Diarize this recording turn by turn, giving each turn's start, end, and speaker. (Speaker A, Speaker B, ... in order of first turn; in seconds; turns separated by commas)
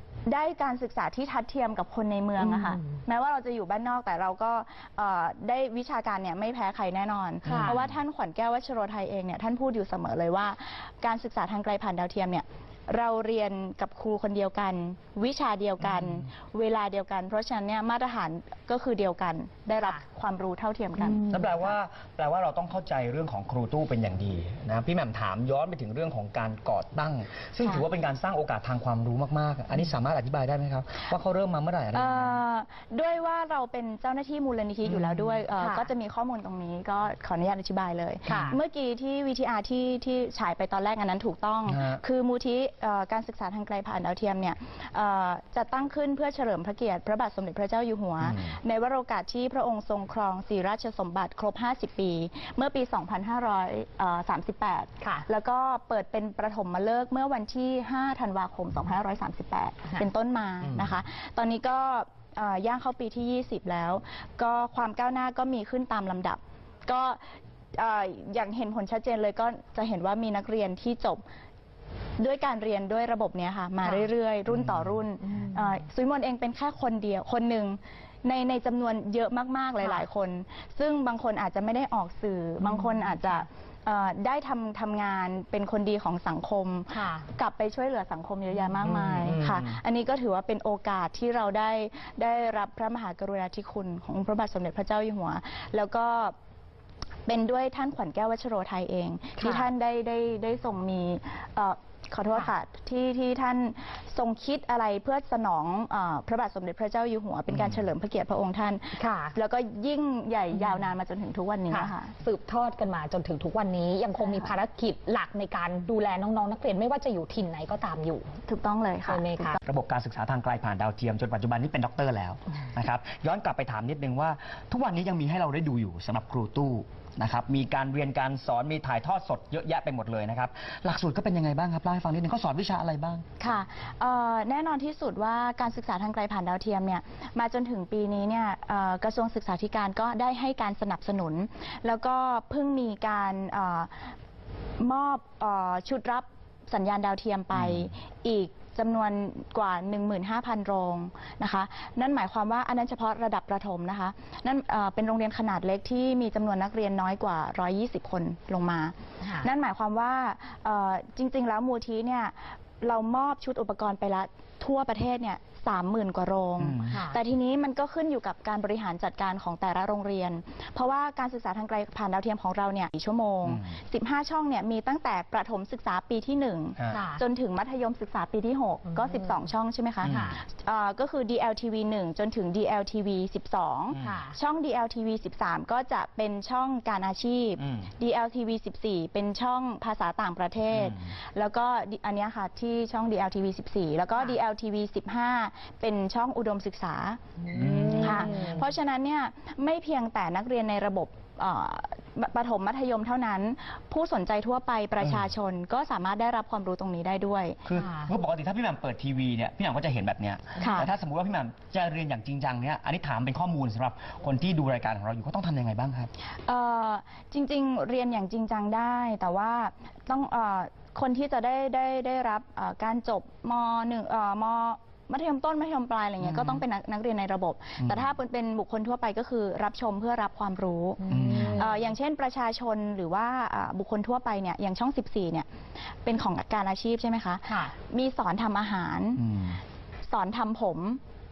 Speaker A: 0.2-21.2, Speaker B: 2.4-3.0, Speaker B: 7.4-7.8, Speaker C: 7.4-8.0, Speaker B: 19.8-20.0, Speaker B: 21.1-21.5, Speaker C: 21.2-32.4, Speaker A: 31.9-71.2, Speaker C: 34.9-35.3, Speaker B: 35.5-35.9, Speaker B: 38.2-38.6, Speaker C: 38.3-38.5, Speaker C: 41.6-42.0, Speaker C: 48.2-48.5, Speaker B: 55.0-55.3, Speaker C: 60.6-61.0, Speaker A: 72.2-96.3, Speaker B: 73.8-74.1, Speaker C: 74.5-75.0, Speaker B: 75.2-75.8, Speaker B: 82.7-83.4, Speaker B: 86.9-87.2, Speaker C: 88.8-89.8, Speaker A: 97.2-112.1, Speaker B: 99.4-99.7, Speaker C: 107.5-107.8, Speaker B: 108.9-109.3, Speaker B: 111.7-118.3, Speaker A: 114.2-114.5, Speaker A: 118.5-119.6, Speaker B: 119.1-119.6, Speaker C: 119.7-133.2, Speaker A: 133.4-144.1, Speaker A: 144.8-197.2, Speaker C: 147.5-147.9, Speaker B: 159.2-159.5, Speaker C: 166.6-167.0, Speaker B: 166.9-167.2, Speaker C: 173.4-173.8, Speaker C: 176.8-177.0, Speaker B: 176.9-177.2, Speaker B: 178.9-179.3, Speaker C: 180.0-180.3, Speaker B: 180.0-180.4, Speaker C: 183.9-184.2, Speaker B: 184.0-184.4, Speaker C: 187.6-187.9, Speaker C: 190.7-191.1, Speaker B: 197.4-198.7, Speaker C: 197.5-198.4, Speaker A: 197.9-207.6, Speaker C: 205.0-205.3, Speaker C: 207.7-216.1, Speaker B: 207.7-208.1, Speaker A: 210.6-210.9, Speaker A: 216.4-235.5, Speaker C: 226.2-226.6, Speaker C: 227.8-228.1, Speaker B: 231.0-231.8, Speaker C: 231.1-231.7, Speaker A: 236.0-239.2, Speaker B: 237.5-237.8, Speaker C: 239.1-239.6, Speaker A: 240.1-241.0